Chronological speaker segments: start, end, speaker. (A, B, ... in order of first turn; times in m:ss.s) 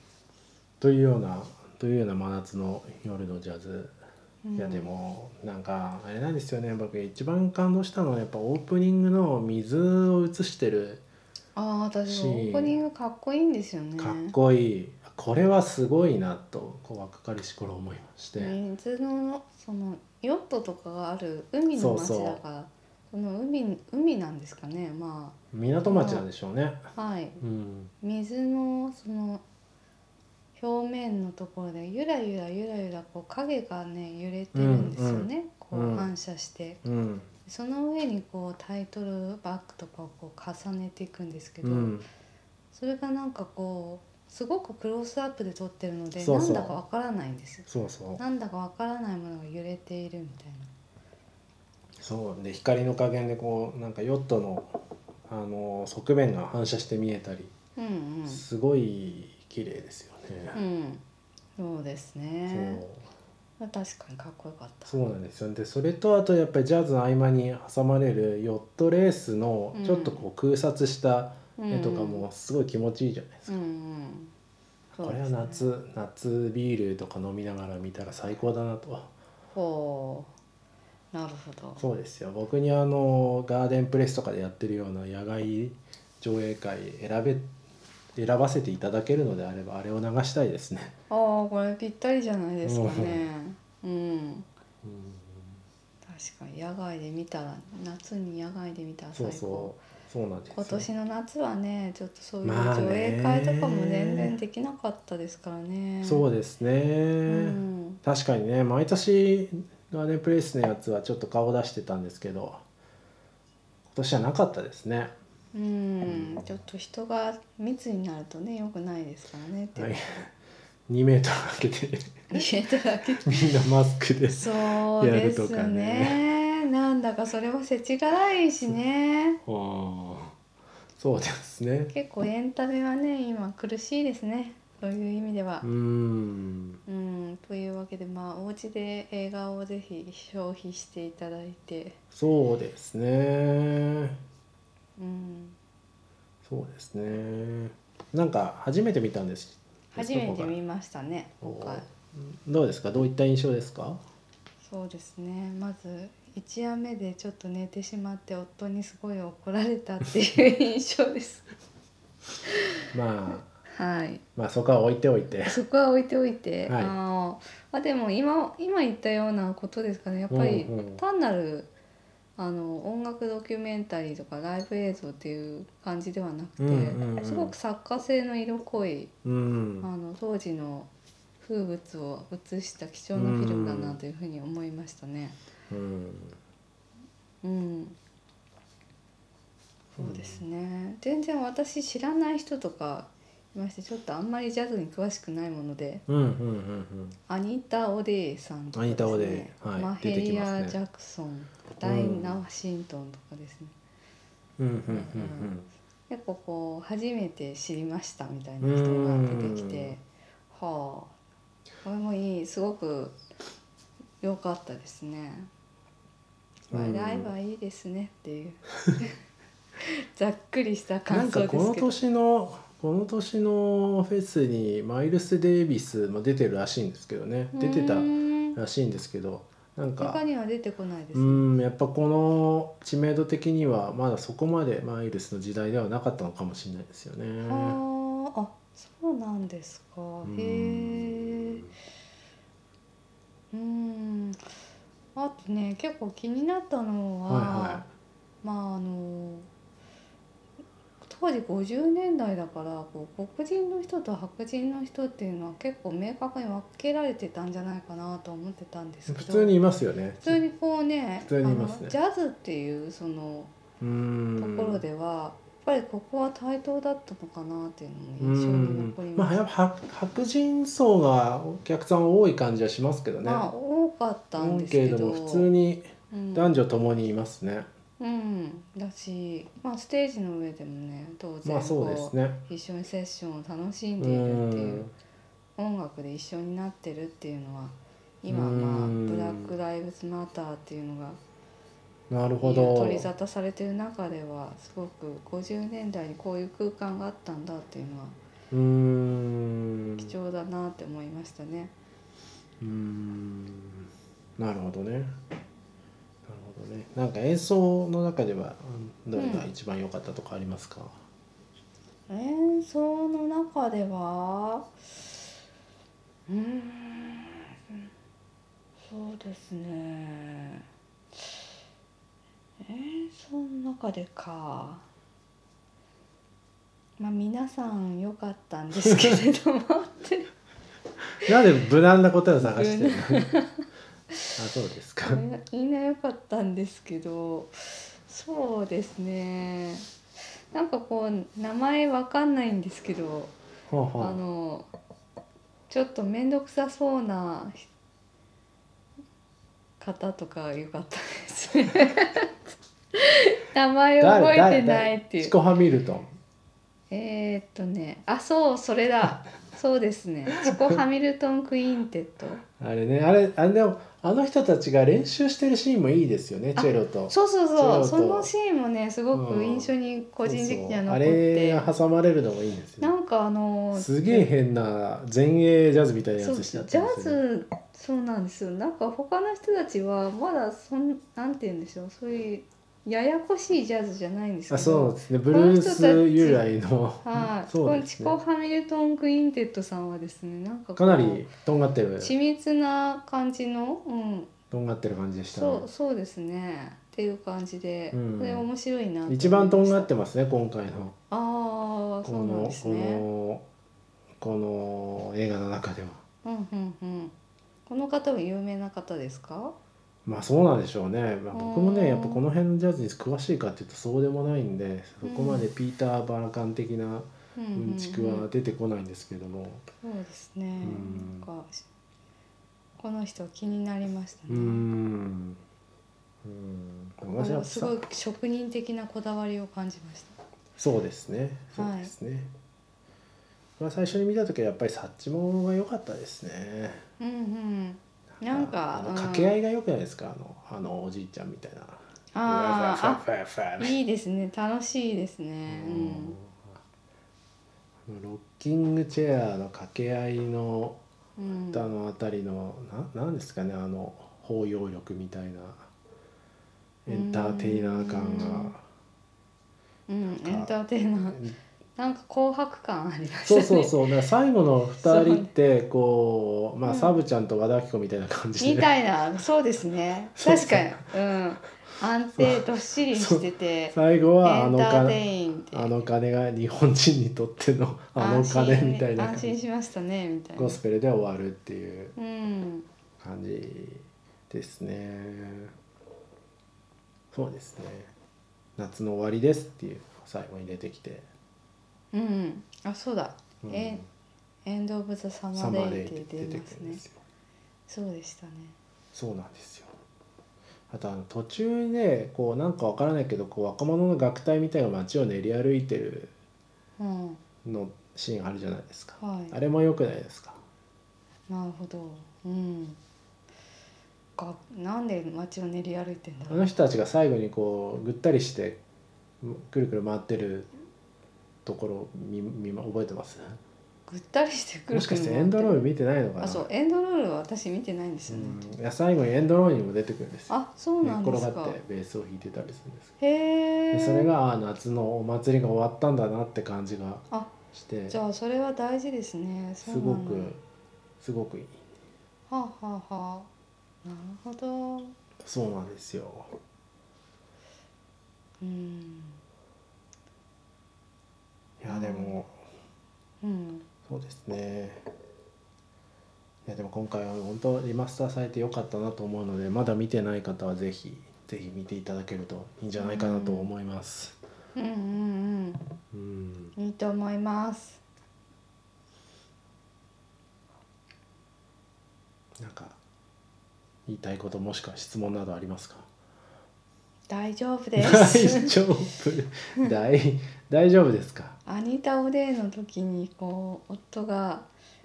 0:00.8-0:03.9 A
0:04.4-0:04.9 B
0:04.6-0:11.0 A
0:11.5-0:14.3 B
0:12.1-0:12.8 A
0:14.0-0:18.6 A
0:18.4-0:25.4 B
0:21.7-0:22.4 A
0:25.5-0:26.9 A
0:25.9-0:26.2 B
0:27.0-0:27.4 B
0:27.4-0:27.9 A
0:28.0-0:29.4 B
0:30.6-0:36.8 B
0:34.5-0:36.1 A
0:36.8-0:37.3 A
0:37.4-0:41.9 B
0:41.6-0:42.0 A
0:42.7-0:47.6 B
0:46.2-0:46.7 A
0:47.7-0:48.2 A
0:48.2-0:50.7 B
0:52.0-0:54.8 A
0:55.3-0:57.5 A
0:57.8-0:58.4 B
0:58.3-1:00.6 A
1:00.5-1:01.0 B
1:01.6-1:02.8 B
1:02.5-1:03.1 A
1:03.6-1:04.9 B
1:04.8-1:13.5 A
1:09.7-1:10.2 B
1:11.6-1:12.2 B
1:13.5-1:14.3 B
1:14.9-1:15.6 B
1:15.0-1:19.1 A
1:19.5-1:20.3 B
1:21.1-1:21.8 B
1:21.8-1:27.5 A
1:28.1-1:30.9 A
1:31.1-1:34.5 B
1:32.6-1:33.2 A
1:34.8-1:35.6 A
1:36.0-1:39.8 B
1:39.1-1:40.9 A
1:40.5-1:46.2 B
1:42.4-1:44.3 A
1:46.0-1:52.6 A
1:47.3-1:48.0 B
1:53.9-1:55.1 A
1:55.5-1:59.9 B
1:56.0-1:56.4 A
1:59.8-2:00.3 A
2:00.9-2:02.4 A
2:02.3-2:03.5 B
2:03.2-2:06.2 A
2:04.3-2:09.4 B
2:09.4-2:10.3 A
2:11.0-2:11.9 A
2:11.9-2:15.6 B
2:15.6-2:16.8 A
2:16.8-2:22.0 B
2:22.1-2:24.2 A
2:25.0-2:25.6 B
2:26.4-2:30.5 A
2:29.9-2:31.8 B
2:31.4-2:34.0 A
2:34.6-2:41.4 B
2:42.9-2:43.5 A
2:43.7-2:44.2 B
2:44.4-2:45.6 A
2:45.4-2:51.7 B
2:46.7-2:46.9 A
2:50.3-2:51.0 A
2:52.4-2:59.1 B
2:56.6-2:57.5 A
2:59.2-2:59.9 A
2:59.8-3:00.9 B
3:01.4-3:05.4 B
3:03.1-3:04.0 A
3:05.7-3:06.4 A
3:07.4-3:08.0 B
3:10.0-3:10.4 A
3:10.0-3:16.0 B
3:16.1-3:17.2 A
3:17.3-3:23.7 B
3:18.7-3:20.8 A
3:21.8-3:22.4 A
3:24.6-3:25.7 A
3:24.9-3:25.5 B
3:26.1-3:31.1 B
3:28.6-3:30.0 A
3:31.8-3:33.2 B
3:34.2-3:35.5 B
3:36.7-3:39.2 B
3:36.7-3:37.3 A
3:39.8-3:41.9 B
3:41.1-3:50.2 A
3:47.5-3:48.6 B
3:50.0-3:51.5 B
3:51.1-3:57.8 A
3:57.4-4:01.6 B
4:00.2-4:01.7 A
4:03.5-4:04.4 B
4:05.1-4:07.8 B
4:07.3-4:07.9 A
4:08.4-4:09.5 B
4:11.0-4:19.5 B
4:19.1-4:20.4 A
4:20.2-4:23.5 B
4:21.2-4:21.9 A
4:23.8-4:24.8 A
4:24.4-4:29.4 B
4:28.2-4:33.5 A
4:33.2-4:35.5 B
4:34.4-4:37.7 A
4:36.1-4:36.5 B
4:38.0-4:44.9 B
4:41.4-4:42.4 A
4:44.0-4:44.9 A
4:45.6-4:51.2 B
4:48.3-4:49.5 A
4:52.1-4:53.1 A
4:52.4-4:58.2 B
4:58.5-5:00.1 A
5:00.0-5:01.7 B
5:02.6-5:05.2 A
5:06.2-5:11.0 A
5:09.1-5:09.5 B
5:12.1-5:14.7 B
5:16.3-5:17.9 B
5:18.8-5:20.6 B
5:22.6-5:24.8 B
5:27.0-5:30.3 B
5:28.8-5:29.2 A
5:31.2-5:33.3 A
5:32.4-5:33.6 B
5:34.3-5:35.2 A
5:35.0-5:39.9 B
5:40.5-5:43.3 B
5:43.7-5:44.2 A
5:44.0-5:44.7 B
5:45.7-5:47.7 B
5:49.8-5:52.4 B
5:52.9-5:55.3 B
5:54.0-5:56.1 A
5:56.9-6:02.4 B
6:02.6-6:08.3 A
6:06.6-6:11.7 B
6:09.1-6:09.7 A
6:10.2-6:12.9 A
6:12.8-6:14.3 B
6:13.7-6:17.2 A
6:16.2-6:26.4 B
6:24.5-6:28.2 A
6:27.0-6:31.2 B
6:30.8-6:32.1 A
6:32.0-6:34.3 B
6:34.5-6:35.7 A
6:35.3-6:39.9 B
6:37.9-6:38.5 A
6:39.1-6:41.0 A
6:41.1-6:43.0 B
6:42.0-6:43.4 A
6:44.2-6:46.0 A
6:46.2-6:47.1 B
6:47.6-6:49.5 B
6:50.0-6:59.6 A
6:51.3-6:52.2 B
6:55.0-6:55.4 B
6:57.4-6:58.3 B
6:59.8-7:01.6 B
7:00.6-7:01.3 A
7:02.8-7:04.6 B
7:04.3-7:05.4 A
7:06.2-7:07.8 A
7:07.1-7:10.2 B
7:10.6-7:12.3 A
7:11.5-7:11.9 B
7:13.6-7:16.8 A
7:17.0-7:19.4 B
7:18.2-7:23.8 A
7:22.1-7:23.0 B
7:23.6-7:26.2 B
7:25.5-7:26.6 A
7:27.9-7:30.8 A
7:31.2-7:31.7 B
7:31.5-7:35.7 A
7:36.8-7:38.6 A
7:36.9-7:38.5 B
7:39.9-7:41.2 B
7:40.1-7:40.5 A
7:41.1-7:41.4 A
7:41.8-7:43.8 B
7:43.2-7:48.7 A
7:44.8-7:45.3 B
7:46.6-7:47.0 B
7:48.4-7:55.7 B
7:50.2-7:50.8 A
7:52.9-7:55.0 A
7:55.5-7:59.4 A
7:58.0-8:00.6 B
8:00.4-8:01.9 A
8:02.0-8:02.7 B
8:03.0-8:05.5 A
8:07.1-8:07.9 A
8:08.6-8:11.1 A
8:11.9-8:13.8 B
8:13.4-8:13.9 A
8:14.4-8:16.8 B
8:15.3-8:17.0 A
8:17.7-8:18.6 B
8:18.9-8:19.7 A
8:20.7-8:26.1 A
8:26.8-8:27.2 B
8:27.4-8:30.4 A
8:29.0-8:29.3 B
8:31.3-8:32.8 B
8:34.2-8:36.5 B
8:36.3-8:38.6 A
8:39.2-8:40.5 A
8:41.4-8:43.4 A
8:43.9-8:45.6 B
8:44.7-8:46.5 A
8:46.2-8:48.4 B
8:48.1-8:52.9 A
8:50.3-8:51.6 B
8:53.0-8:54.1 B
8:53.7-8:58.0 A
8:57.9-9:00.4 B
8:59.6-9:00.4 A
9:01.0-9:01.6 A
9:02.3-9:03.3 B
9:03.8-9:05.0 B
9:05.2-9:06.3 A
9:08.4-9:09.2 B
9:11.6-9:12.3 A
9:11.7-9:12.2 B
9:13.2-9:13.7 B
9:13.9-9:14.8 A
9:16.4-9:24.2 A
9:22.8-9:23.5 B
9:24.5-9:25.6 B
9:25.9-9:26.5 A
9:26.6-9:27.8 B
9:32.4-9:32.8 A
9:33.9-9:35.9 A
9:37.1-9:38.6 B
9:37.8-9:41.4 A
9:41.4-9:44.5 B